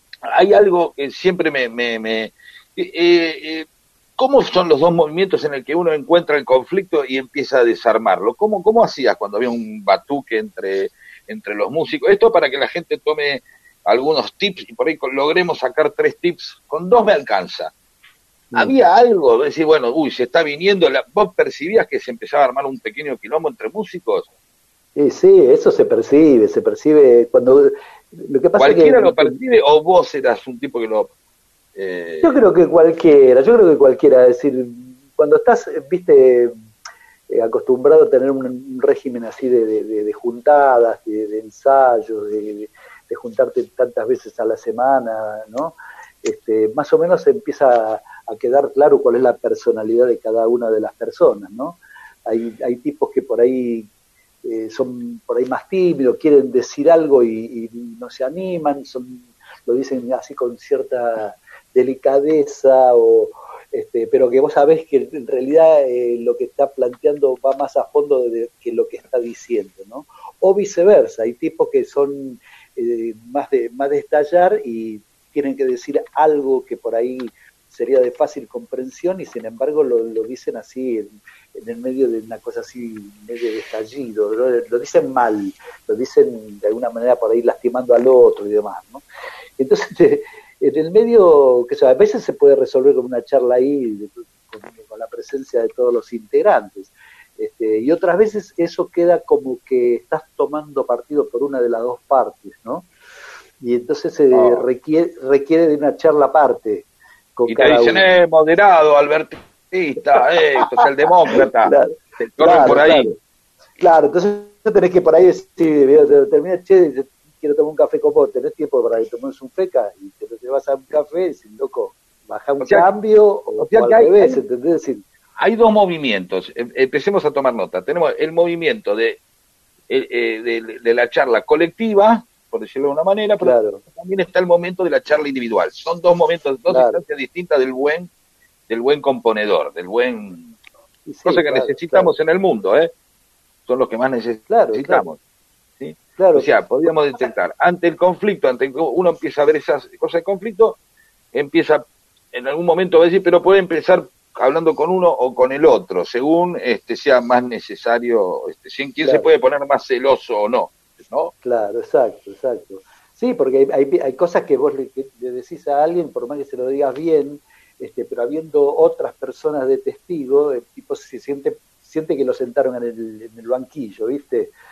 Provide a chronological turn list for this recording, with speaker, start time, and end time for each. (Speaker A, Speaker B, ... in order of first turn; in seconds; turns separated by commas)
Speaker A: 0.3-17.7, Speaker A: 18.5-24.3, Speaker B: 24.9-29.4, Speaker A: 28.6-31.1, Speaker A: 31.8-32.4, Speaker B: 32.2-36.5, Speaker B: 37.3-53.9, Speaker B: 54.4-89.0, Speaker B: 89.6-102.9, Speaker B: 103.6-108.1, Speaker A: 104.3-104.6, Speaker A: 107.5-113.1, Speaker B: 110.1-113.1, Speaker B: 113.8-125.0, Speaker A: 122.6-122.9, Speaker A: 123.6-124.4, Speaker A: 125.4-129.2, Speaker A: 129.9-138.1, Speaker B: 133.4-133.8, Speaker B: 136.7-137.0, Speaker A: 138.7-140.6, Speaker B: 141.1-142.1, Speaker A: 141.2-142.9, Speaker A: 143.7-145.2, Speaker B: 144.5-145.1, Speaker A: 145.8-150.8, Speaker B: 146.2-146.5, Speaker A: 151.3-161.3, Speaker B: 161.4-174.5